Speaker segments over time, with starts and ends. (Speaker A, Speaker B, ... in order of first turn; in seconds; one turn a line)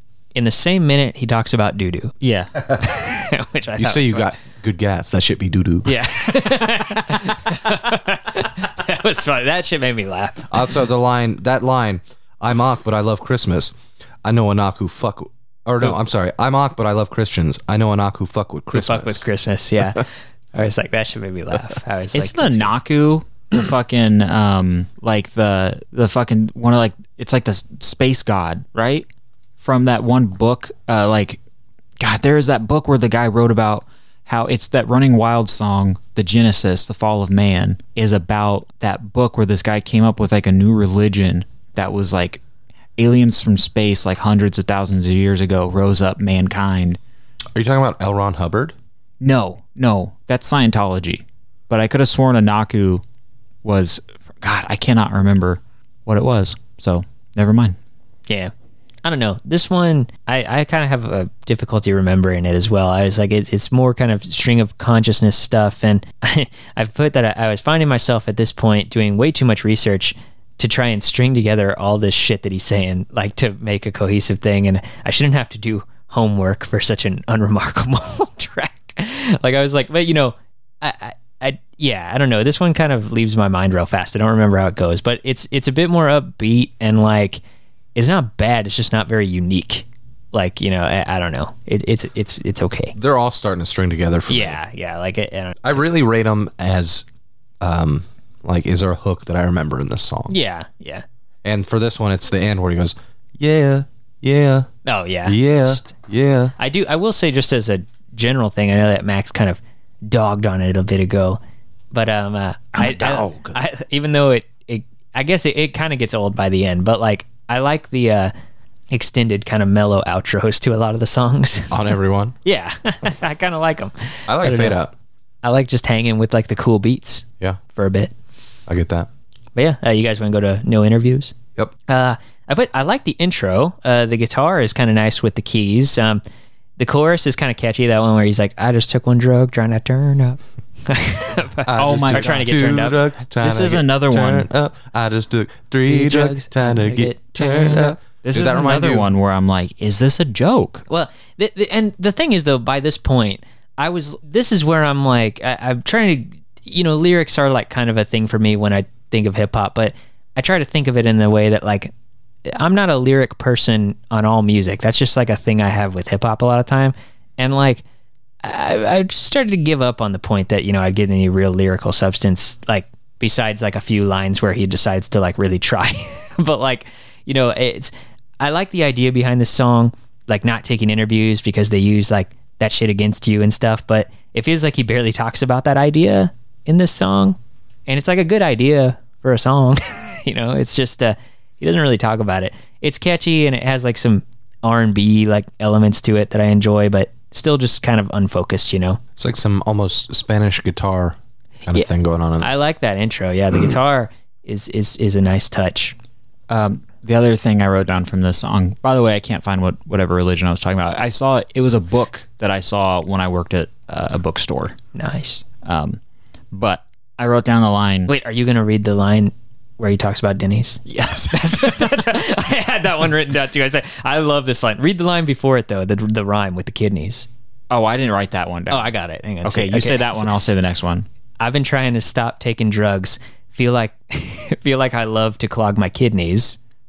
Speaker A: 0.3-2.2
Speaker B: 2.2-2.5
Speaker A: 2.7-4.3
Speaker C: 3.8-6.1
Speaker A: 5.9-10.6
Speaker C: 10.5-19.2
Speaker A: 18.7-22.7
Speaker B: 22.1-29.1
Speaker B: 29.6-31.4
Speaker B: 32.0-42.4
Speaker B: 43.0-47.0
Speaker C: 47.5-48.8
Speaker B: 49.2-53.0
Speaker B: 53.6-57.8
Speaker A: 59.0-87.4
Speaker A: 88.0-93.0
Speaker C: 93.0-94.6
Speaker A: 94.3-95.8
Speaker C: 95.6-97.1
Speaker C: 97.6-100.3
Speaker A: 100.3-101.0
Speaker C: 101.4-104.7
Speaker A: 104.8-105.9
Speaker C: 105.2-106.5
Speaker A: 106.6-111.4
Speaker A: 111.9-118.3
Speaker B: 112.8-113.6
Speaker A: 118.9-121.9
Speaker C: 121.7-122.4
Speaker A: 122.5-124.8
Speaker C: 124.3-124.9
Speaker A: 125.4-128.1
Speaker C: 128.7-129.1
Speaker A: 129.6-131.3
Speaker A: 131.9-136.2
Speaker A: 136.8-143.0
Speaker C: 141.7-149.1
Speaker B: 141.8-142.6
Speaker B: 143.4-144.5
Speaker A: 145.9-148.0
Speaker B: 148.2-150.8
Speaker A: 150.9-161.9
Speaker A: 162.5-167.8
Speaker A: 168.4-199.0
Speaker C: 199.2-202.5
Speaker A: 202.4-205.9
Speaker B: 206.5-214.8
Speaker A: 214.9-215.4
Speaker B: 215.6-216.0
Speaker B: 216.5-218.1
Speaker A: 218.1-227.3
Speaker B: 220.9-221.9
Speaker B: 227.7-228.9
Speaker A: 228.7-230.4
Speaker B: 229.4-231.1
Speaker A: 231.4-236.6